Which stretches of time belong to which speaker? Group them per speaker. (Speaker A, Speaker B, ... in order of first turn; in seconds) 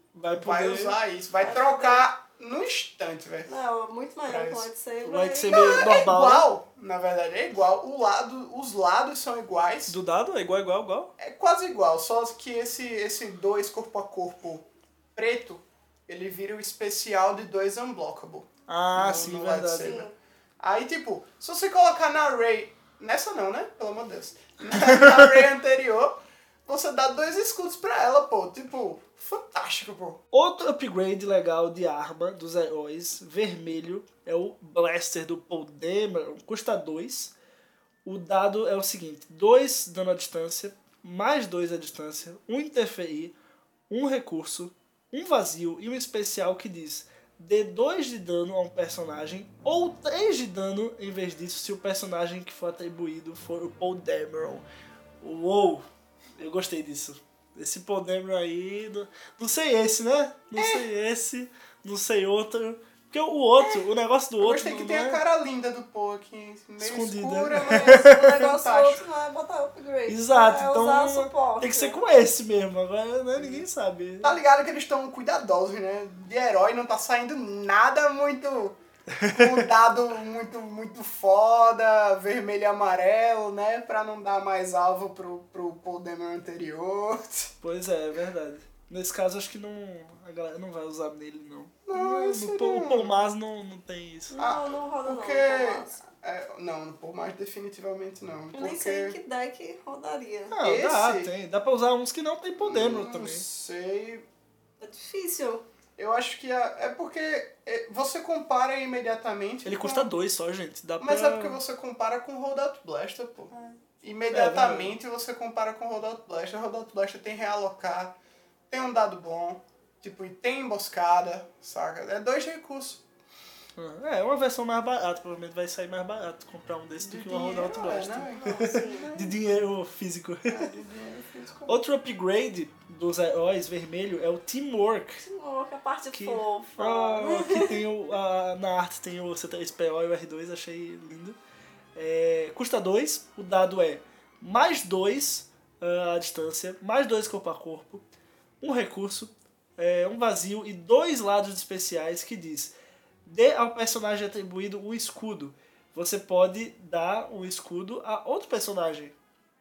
Speaker A: 0.1-1.0, 5.0-6.5, 9.9-11.1, 18.7-20.0, 24.9-25.4, 30.3-37.3, 38.0-43.3, 43.9-54.6, 55.2-55.9, 56.4-65.2, 66.8-68.5, 70.1-74.3, 79.1-79.7, 87.6-94.4, 100.5-103.4, 109.7-111.6, 114.3-115.0, 123.8-130.7, 131.7-135.2, 136.1-141.4, 141.9-148.0, 148.6-159.2
Speaker B: 0.3-3.5, 4.2-4.7, 5.5-9.9, 11.2-30.2, 60.5-60.9, 63.6-63.8, 64.4-69.0, 73.3-73.7, 74.2-78.8, 79.3-87.5, 91.8-93.2, 94.4-99.2, 100.6-101.3, 102.6-104.2, 106.0-110.1, 111.0-118.1, 118.7-123.0, 127.0-129.4, 130.4-131.8
Speaker C: 1.4-2.0, 3.5-6.1, 19.8-20.1, 67.7-72.0, 94.3-96.0, 98.5-100.5, 104.8-105.6, 128.3-129.1, 135.2-137.8